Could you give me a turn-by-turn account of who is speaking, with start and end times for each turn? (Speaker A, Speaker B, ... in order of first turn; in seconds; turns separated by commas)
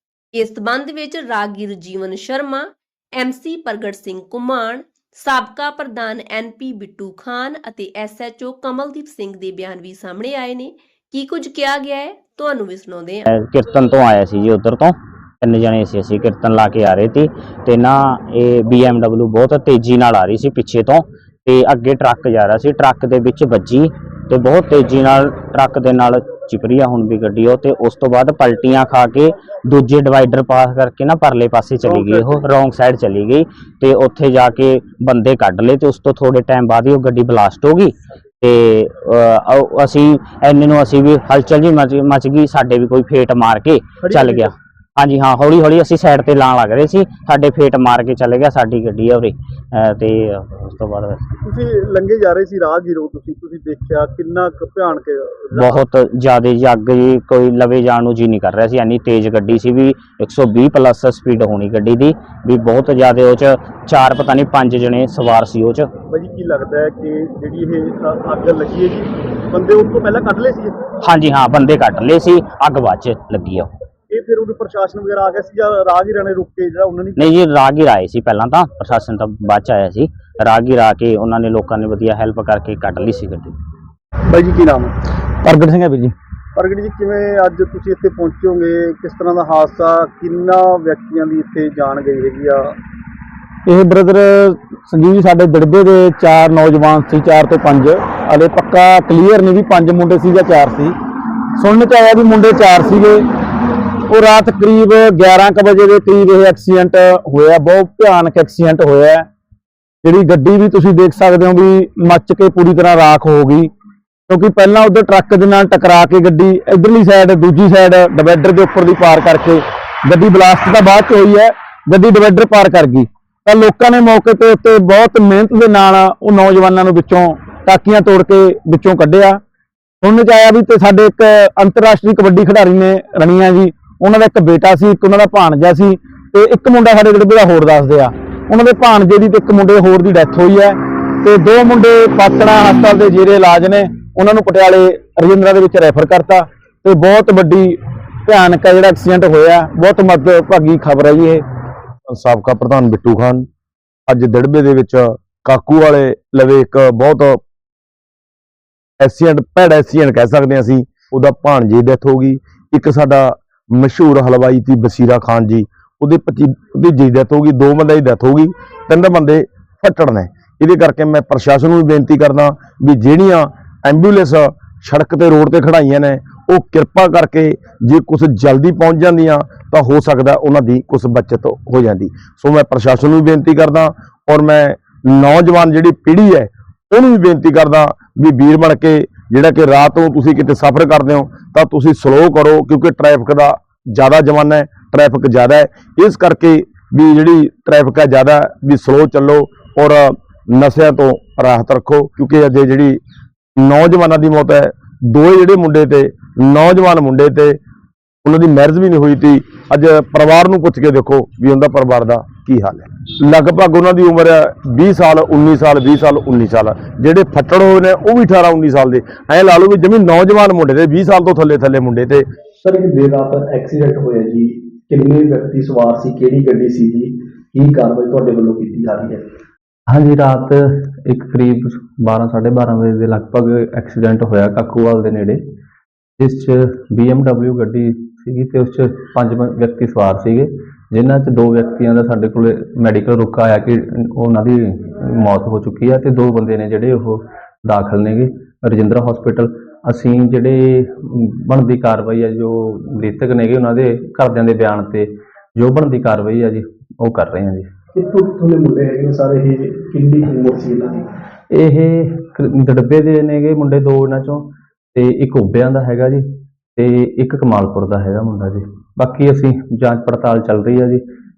Speaker A: 0.3-13.3, Speaker B: 13.3-51.3, Speaker C: 31.8-32.4, Speaker C: 44.0-44.5, Speaker C: 51.4-55.8, Speaker B: 55.5-65.9, Speaker C: 66.1-70.8, Speaker B: 71.0-73.7, Speaker C: 74.1-77.4, Speaker B: 77.2-83.5, Speaker C: 84.3-84.9, Speaker D: 85.4-86.1, Speaker C: 86.5-92.7, Speaker D: 93.7-101.0, Speaker D: 101.6-103.2, Speaker D: 104.1-109.3, Speaker D: 110.0-113.7, Speaker D: 114.3-129.4, Speaker D: 130.0-151.4, Speaker E: 152.1-153.5, Speaker E: 154.1-157.4, Speaker E: 159.0-203.0, Speaker E: 203.6-207.6, Speaker E: 208.2-222.2, Speaker F: 222.6-229.2, Speaker G: 229.9-235.4, Speaker G: 236.2-257.7, Speaker F: 257.9-261.1, Speaker G: 261.5-266.2, Speaker G: 266.8-271.0